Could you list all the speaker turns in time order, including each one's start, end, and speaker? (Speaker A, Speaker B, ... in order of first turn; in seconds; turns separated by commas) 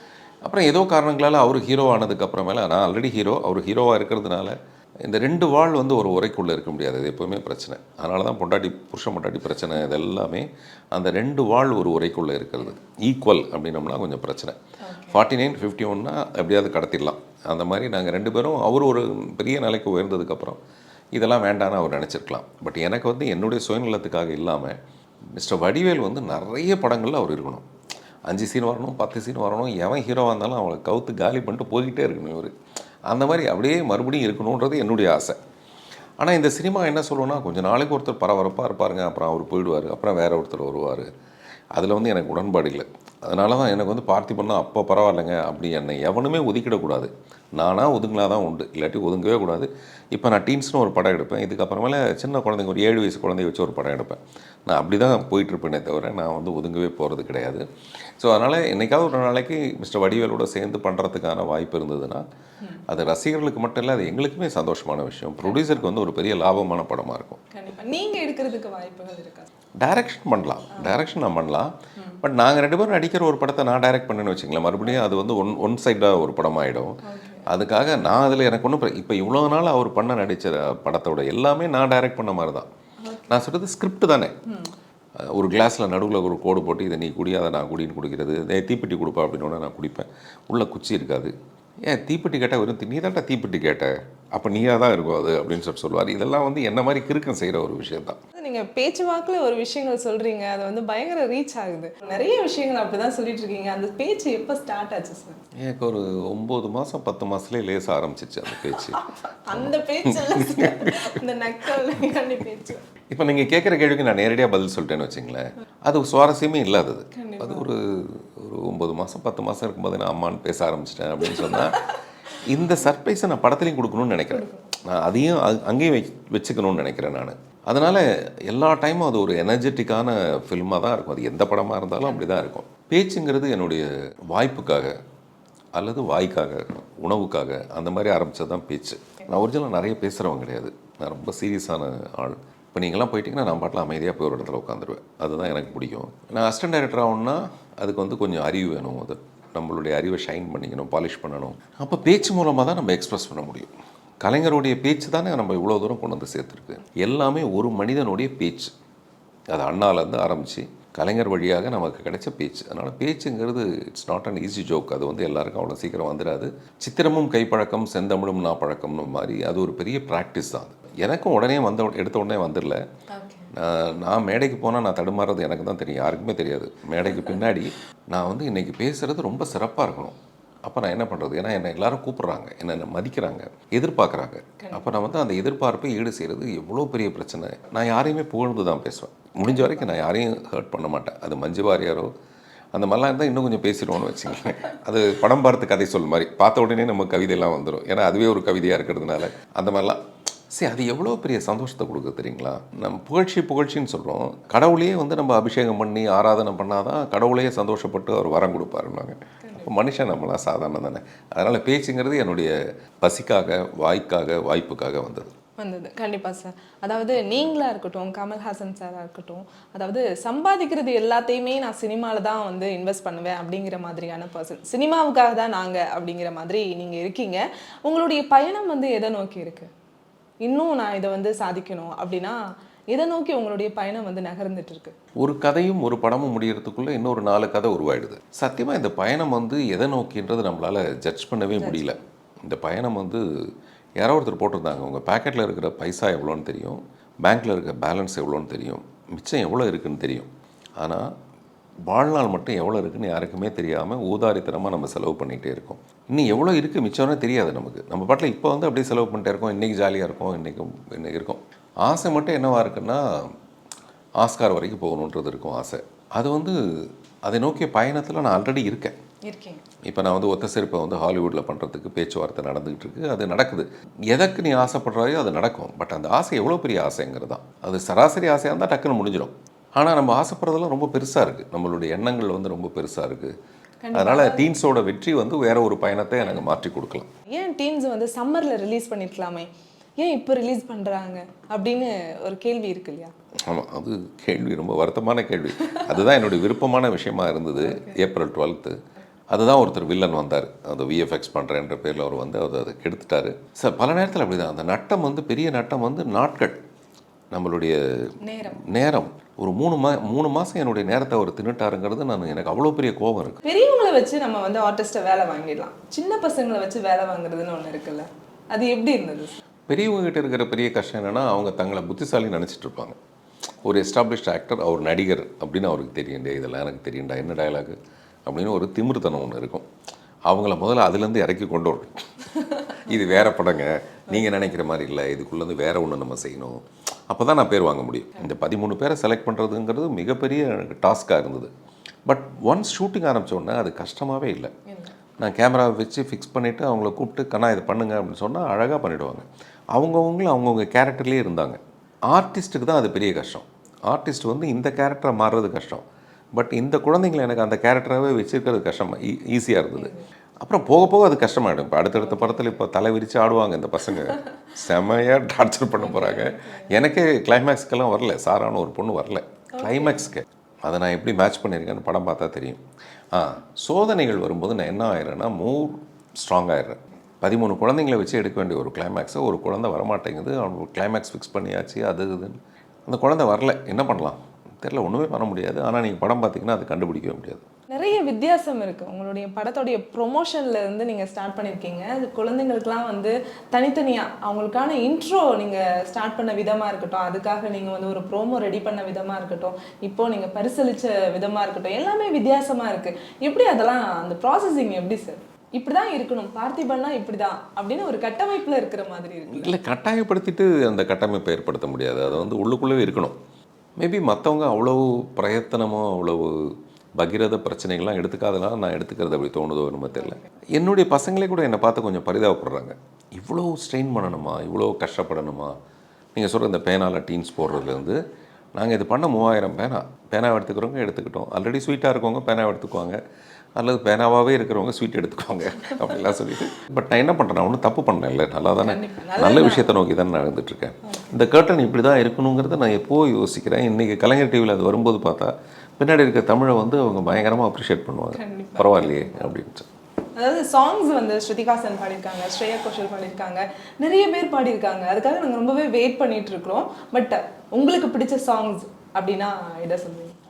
Speaker A: 0.4-14.6, Speaker B: 14.8-15.2, Speaker A: 15.1-20.6, Speaker A: 21.1-24.8, Speaker A: 25.3-27.6, Speaker A: 28.3-32.5, Speaker A: 33.1-35.4, Speaker A: 36.2-41.1, Speaker A: 41.7-57.6, Speaker A: 58.2-62.2, Speaker A: 62.9-67.4, Speaker B: 65.4-65.8, Speaker B: 67.5-69.5, Speaker A: 69.8-82.7, Speaker B: 77.0-77.5, Speaker B: 83.0-83.4, Speaker A: 83.3-84.3, Speaker B: 84.5-84.7, Speaker A: 85.2-98.2, Speaker B: 98.3-105.4, Speaker A: 105.6-109.0, Speaker B: 108.7-112.8, Speaker A: 109.5-111.2, Speaker A: 113.1-121.8, Speaker B: 117.1-117.7, Speaker B: 121.3-121.8, Speaker A: 122.4-134.9, Speaker B: 124.3-124.7, Speaker A: 135.7-158.7, Speaker B: 145.4-145.7, Speaker A: 159.5-172.8, Speaker B: 173.1-173.5, Speaker A: 173.5-192.1, Speaker B: 184.6-184.9, Speaker B: 189.4-189.9, Speaker A: 192.7-215.3, Speaker B: 209.4-209.7, Speaker B: 215.6-229.7, Speaker B: 230.4-234.9, Speaker A: 235.2-243.2, Speaker B: 241.6-241.9, Speaker A: 244.0-251.1, Speaker A: 251.9-263.3, Speaker A: 264.2-268.9, Speaker B: 269.2-269.6, Speaker A: 269.9-283.3, Speaker B: 283.8-284.5, Speaker A: 283.9-287.1, Speaker B: 287.3-293.1, Speaker A: 293.4-298.8, Speaker B: 297.6-298.0, Speaker A: 299.3-306.6, Speaker A: 307.3-313.4, Speaker B: 308.2-308.6, Speaker B: 313.4-319.4, Speaker A: 319.7-323.0, Speaker A: 323.6-329.7, Speaker A: 330.3-332.0, Speaker A: 332.8-341.5, Speaker A: 342.1-344.5, Speaker B: 344.7-344.9, Speaker A: 345.2-387.4, Speaker B: 359.8-360.0, Speaker B: 362.0-362.6, Speaker B: 365.8-366.7, Speaker B: 369.6-370.1, Speaker B: 387.7-409.5, Speaker A: 409.3-413.2, Speaker A: 413.8-425.5, Speaker B: 420.0-420.2, Speaker A: 426.1-428.0, Speaker A: 428.6-433.0, Speaker A: 433.6-449.7, Speaker B: 438.6-439.7, Speaker B: 440.8-441.1, Speaker B: 448.1-449.3, Speaker B: 450.1-460.1